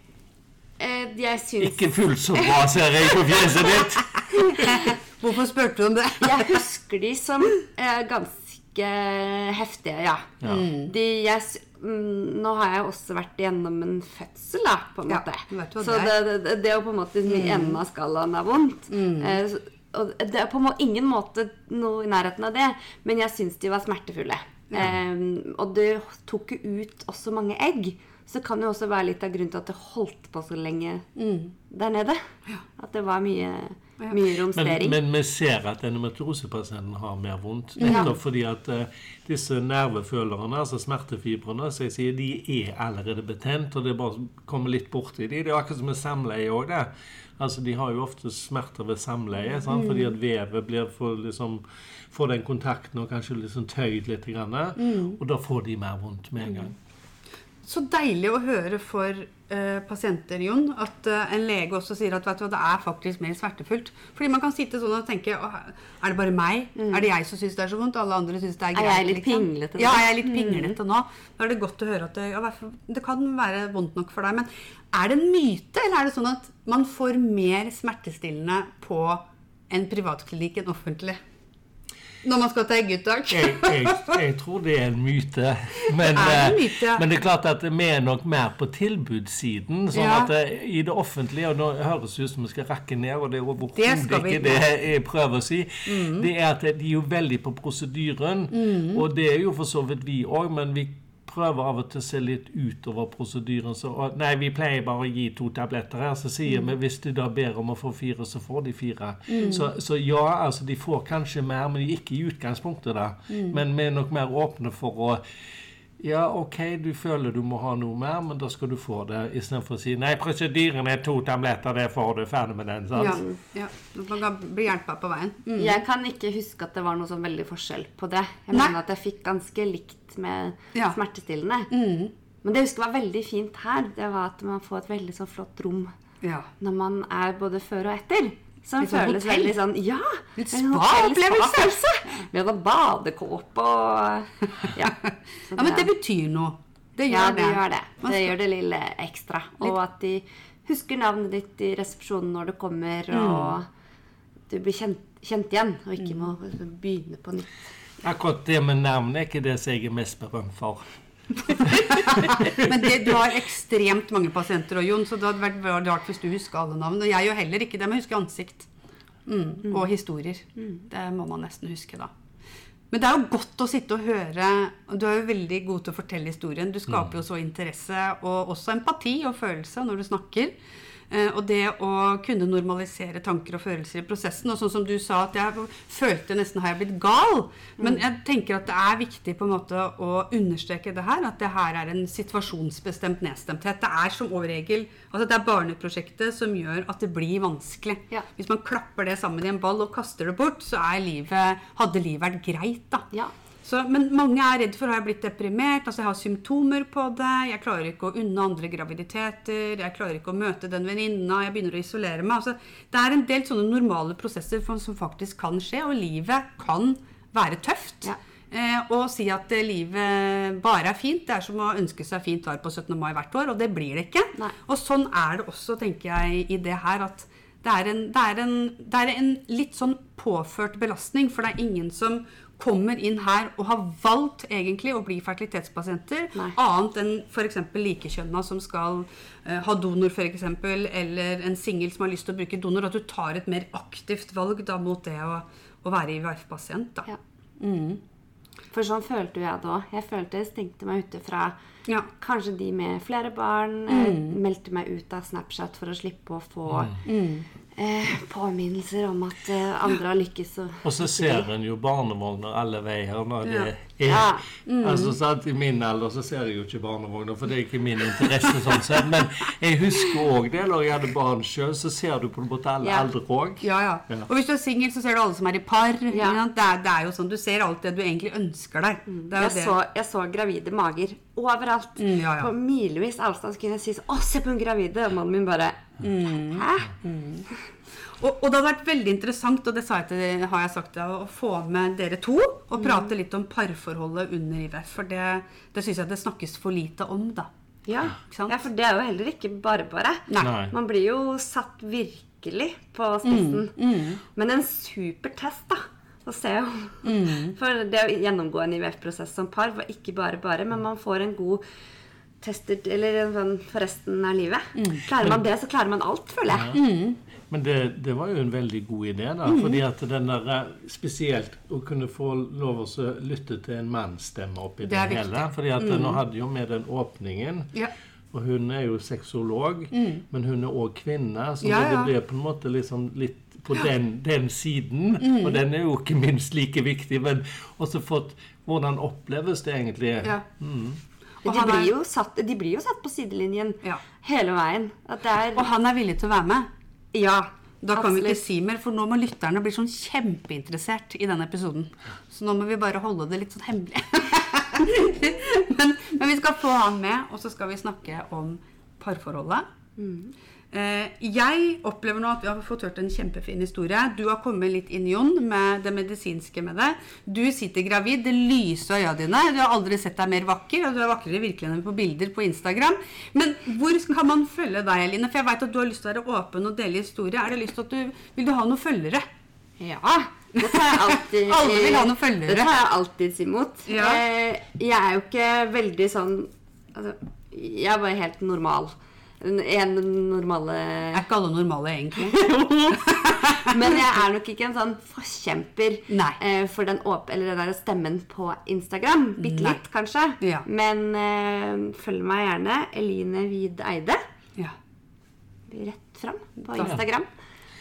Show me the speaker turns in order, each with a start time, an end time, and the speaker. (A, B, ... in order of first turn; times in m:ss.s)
0:00.8-0:04.9 A
0:01.6-0:04.6 B
0:04.6-0:06.6 C
0:06.2-0:31.1 A
0:10.5-0:10.9 C
0:15.1-0:16.1 C
0:17.2-0:17.8 C
0:18.9-0:19.4 C
0:31.2-0:31.5 C
0:31.7-0:32.3 A
0:32.8-0:35.0 A
0:34.5-0:56.8 B
0:37.8-0:38.1 C
0:37.8-0:38.1 A
0:49.7-0:50.1 C
0:54.8-0:55.2 C
0:57.6-1:21.2 C
1:06.8-1:07.1 A
1:08.8-1:10.8 A
1:22.2-1:24.2 C
1:23.3-1:55.2 B
1:26.0-1:27.0 C
1:29.9-1:30.3 C
1:33.8-1:34.6 C
1:35.8-1:36.3 C
1:38.5-1:39.0 C
1:49.3-1:49.7 C
1:53.3-1:53.6 C
1:56.0-2:03.2 B
2:03.0-2:05.8 C
2:03.0-2:03.4 A
2:05.6-2:11.7 A
2:11.7-2:12.1 C
2:12.4-2:15.9 A
2:16.2-2:16.5 C
2:16.6-2:25.0 A
2:18.8-2:19.6 C
2:20.4-2:22.2 C
2:24.6-2:28.3 C
2:25.5-2:25.9 A
2:27.1-2:33.7 A
2:33.1-2:33.6 C
2:34.5-2:37.6 A
2:36.0-2:36.3 C
2:38.0-2:40.9 B
2:41.5-2:43.0 B
2:42.6-2:48.7 C
2:49.3-2:52.1 C
2:52.9-3:00.6 C
3:01.1-3:23.1 C
3:23.6-4:08.0 C
4:08.7-4:11.6 A
4:12.2-4:17.0 A
4:13.9-4:14.4 C
4:16.7-4:17.0 B
4:17.0-4:17.5 C
4:17.8-4:21.5 A
4:20.8-4:34.3 B
4:23.4-4:23.7 C
4:24.1-4:24.5 A
4:24.7-4:25.1 C
4:32.8-4:33.1 A
4:33.6-4:39.7 C
4:36.1-4:36.4 A
4:39.1-4:47.0 A
4:42.0-4:42.5 C
4:46.0-4:47.5 C
4:48.1-4:57.5 C
4:57.9-5:11.6 A
4:58.2-4:58.5 C
5:00.4-5:00.8 B
5:03.2-5:04.2 C
5:07.0-5:07.6 C
5:12.4-5:16.8 A
5:14.8-5:15.3 C
5:16.5-5:16.8 B
5:16.7-5:17.2 C
5:17.5-5:27.8 B
5:19.5-5:19.8 C
5:24.8-5:26.2 C
5:28.3-5:41.0 B
5:29.9-5:30.2 C
5:31.6-5:32.1 C
5:35.2-5:35.6 C
5:41.4-5:41.9 C
5:41.4-5:45.7 A
5:45.6-5:46.7 C
5:47.1-5:48.4 A
5:47.8-5:59.7 C
6:00.0-6:00.3 A
6:00.7-6:19.3 C
6:19.8-6:31.3 A
6:20.6-6:22.7 C
6:23.9-6:24.2 C
6:31.1-6:33.9 C
6:32.2-6:33.0 A
6:33.6-6:44.2 A
6:36.1-6:36.4 C
6:39.4-6:39.8 C
6:45.7-6:47.3 A
6:46.6-6:47.0 C